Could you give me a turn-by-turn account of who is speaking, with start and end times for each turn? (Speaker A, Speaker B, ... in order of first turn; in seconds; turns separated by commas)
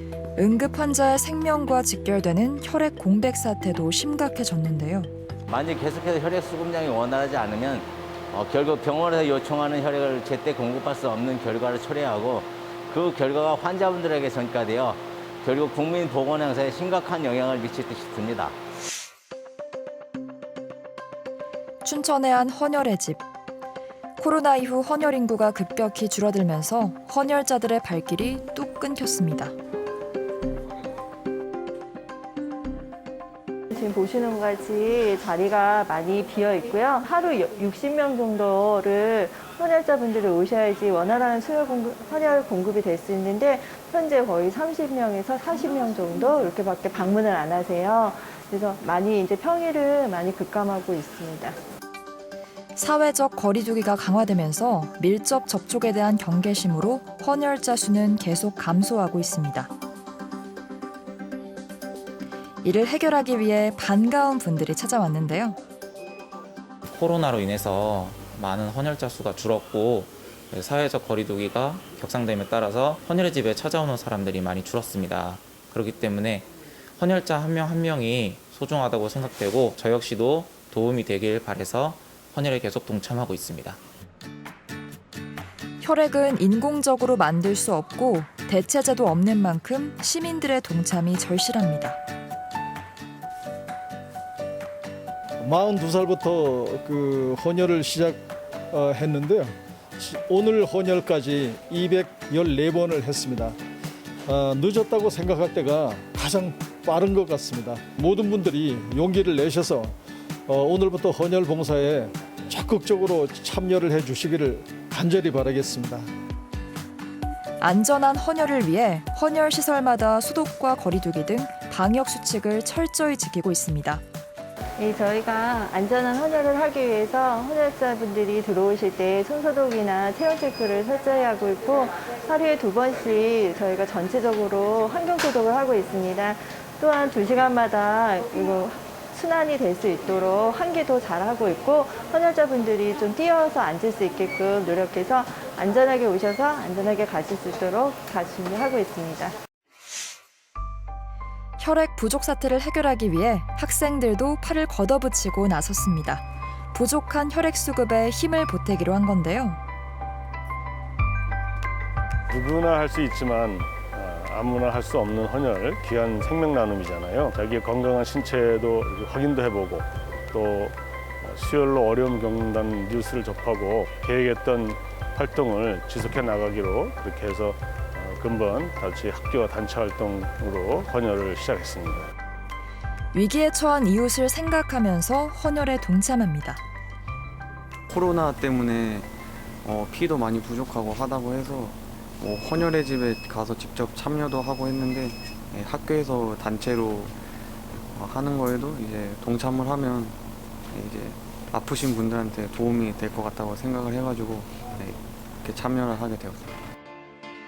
Speaker A: 0.4-5.1, Speaker B: 5.5-18.6, Speaker A: 21.8-23.2, Speaker A: 24.2-29.5, Speaker C: 33.7-51.6, Speaker A: 52.8-59.7, Speaker A: 62.6-65.6, Speaker D: 66.9-83.8, Speaker A: 85.8-92.0, Speaker E: 95.4-103.6, Speaker E: 104.2-116.1, Speaker A: 117.6-124.0, Speaker C: 124.8-149.3, Speaker A: 151.6-159.6, Speaker F: 162.3-182.1, Speaker A: 183.1-186.6, Speaker G: 187.9-189.1, Speaker G: 189.6-197.2, Speaker G: 197.9-200.2, Speaker G: 200.7-206.6